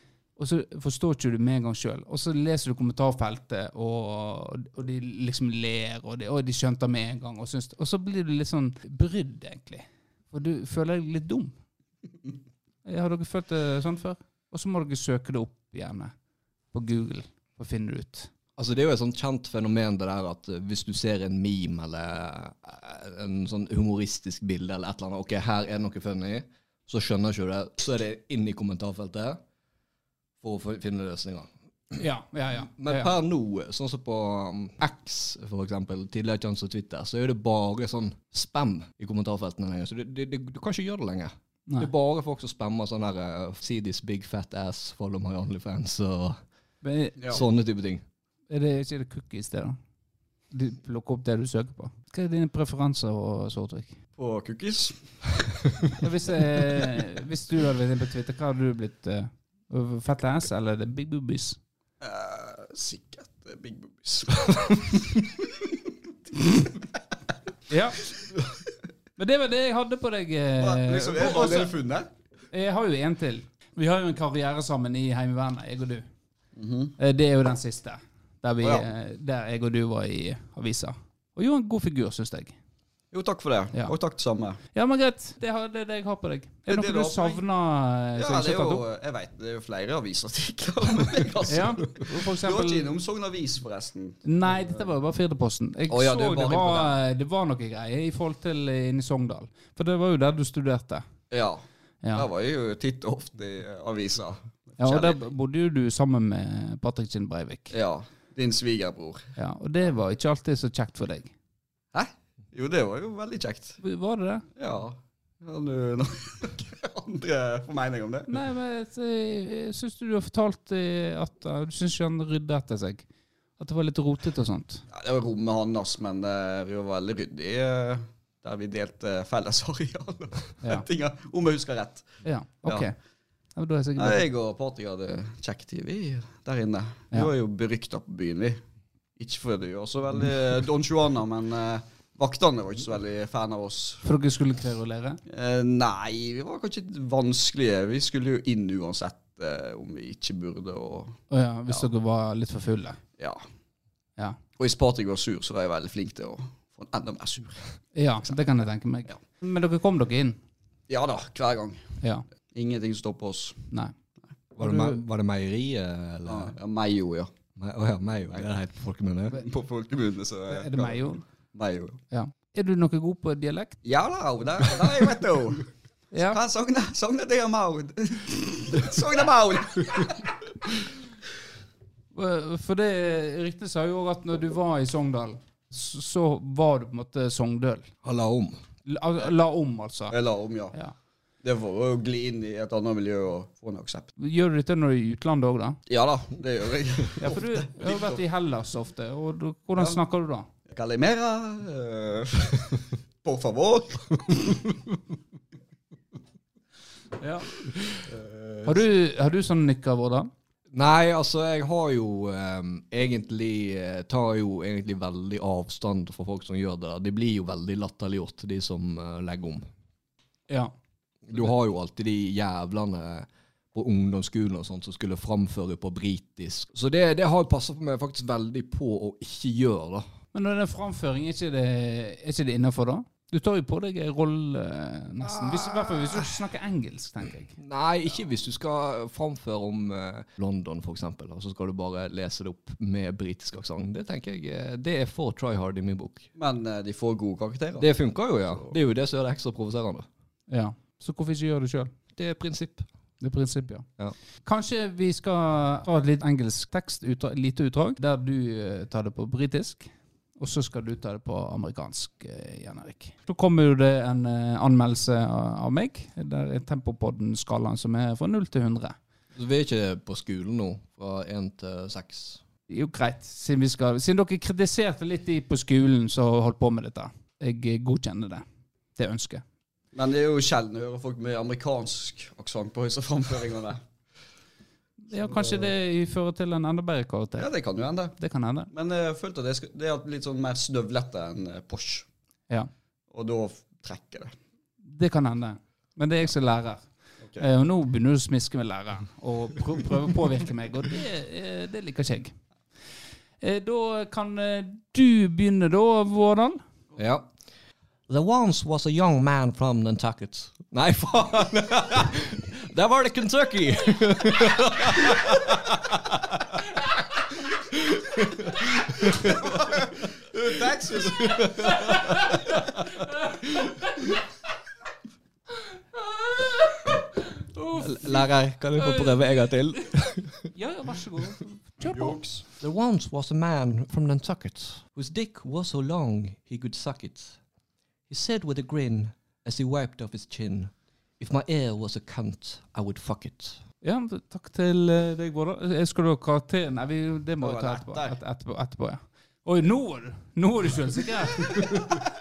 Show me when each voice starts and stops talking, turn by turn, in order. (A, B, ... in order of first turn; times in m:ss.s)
0:00.4-0:11.6 A
0:12.8-0:16.1 A
0:16.7-0:18.3 A
0:18.6-0:29.4 B
0:30.4-0:32.0 B
0:32.0-0:33.1 A
0:32.8-0:46.4 B
0:46.8-0:47.2 A
0:47.2-0:47.4 C
0:47.3-0:48.0 B
0:48.5-0:49.8 A
0:50.5-0:54.0 A
0:54.2-0:55.4 C
0:56.0-1:01.6 A
1:02.0-1:05.7 C
1:06.4-1:06.8 C
1:07.7-1:08.0 A
1:09.2-1:11.7 A
1:10.6-1:12.1 C
1:12.5-1:16.0 A
1:16.6-1:17.0 C
1:17.0-1:22.6 A
1:18.6-1:18.9 C
1:23.1-1:24.6 C
1:24.7-1:28.8 A
1:26.7-1:27.4 C
1:28.2-1:34.9 C
1:31.5-1:32.9 A
1:34.2-1:41.0 A
1:35.9-1:37.0 C
1:41.3-1:41.6 C
1:42.2-1:45.2 C
1:44.8-1:47.7 A
1:47.7-1:49.3 C
1:49.4-1:51.3 A
1:51.9-1:53.8 C
1:53.8-1:54.5 A
1:54.6-1:58.3 C
1:58.3-2:03.1 A
2:03.6-2:04.8 A
2:04.9-2:12.1 C
2:12.2-2:13.0 A
2:13.6-2:14.2 A
2:14.0-2:18.6 C
2:19.2-2:24.0 C
2:24.0-2:25.2 A
2:25.3-2:31.9 C
2:31.3-2:33.0 A
2:34.6-2:37.6 C
2:38.0-2:40.4 A
2:40.9-2:41.9 C
2:42.5-2:43.7 C
2:44.6-2:46.5 B
2:44.6-2:45.0 A
2:46.3-2:47.3 C
2:47.6-2:49.4 B
2:49.3-2:52.0 C
2:50.5-2:51.2 A
2:52.1-2:53.8 A
2:53.8-2:55.7 C
2:56.1-2:56.4 A
2:56.2-3:00.4 C
3:02.1-3:07.9 A
3:08.0-3:08.6 B
3:08.8-3:10.2 A
3:10.1-3:10.8 C
3:11.4-3:14.1 C
3:14.2-3:15.8 A
3:15.9-3:18.2 C
3:17.2-3:20.5 A
3:20.7-3:24.8 C
3:27.2-3:27.5 A
3:28.1-3:28.7 C
3:28.6-3:30.3 A
3:30.7-3:39.7 B
3:41.3-3:50.0 B
3:50.3-3:57.6 A
3:55.2-3:56.3 B
3:57.6-4:06.3 B
4:06.4-4:07.9 C
4:07.8-4:10.1 B
4:10.5-4:11.9 A
4:12.1-4:12.9 B
4:13.2-4:13.9 A
4:14.4-4:29.0 A
4:29.4-4:32.4 B
4:32.7-4:38.4 A
4:39.0-4:39.4 A
4:39.9-4:43.8 C
4:45.1-4:47.5 A
4:45.2-4:45.7 C
4:47.4-4:48.2 C
4:48.2-4:48.7 A
4:48.7-4:52.1 C
4:53.1-4:54.3 C
4:54.8-4:56.8 A
4:57.4-5:02.3 A
5:03.4-5:06.6 A
5:07.0-5:07.3 B
5:08.1-5:16.2 B
5:17.7-5:19.5 B
5:19.3-5:22.4 C
5:21.2-5:21.8 B
5:21.7-5:24.1 A
5:25.9-5:29.8 A
5:27.8-5:30.5 B
5:30.5-5:32.2 A
5:31.8-5:32.4 C
5:32.6-5:37.4 B
5:38.1-5:43.6 B
5:43.8-5:51.8 A
5:47.4-5:48.2 C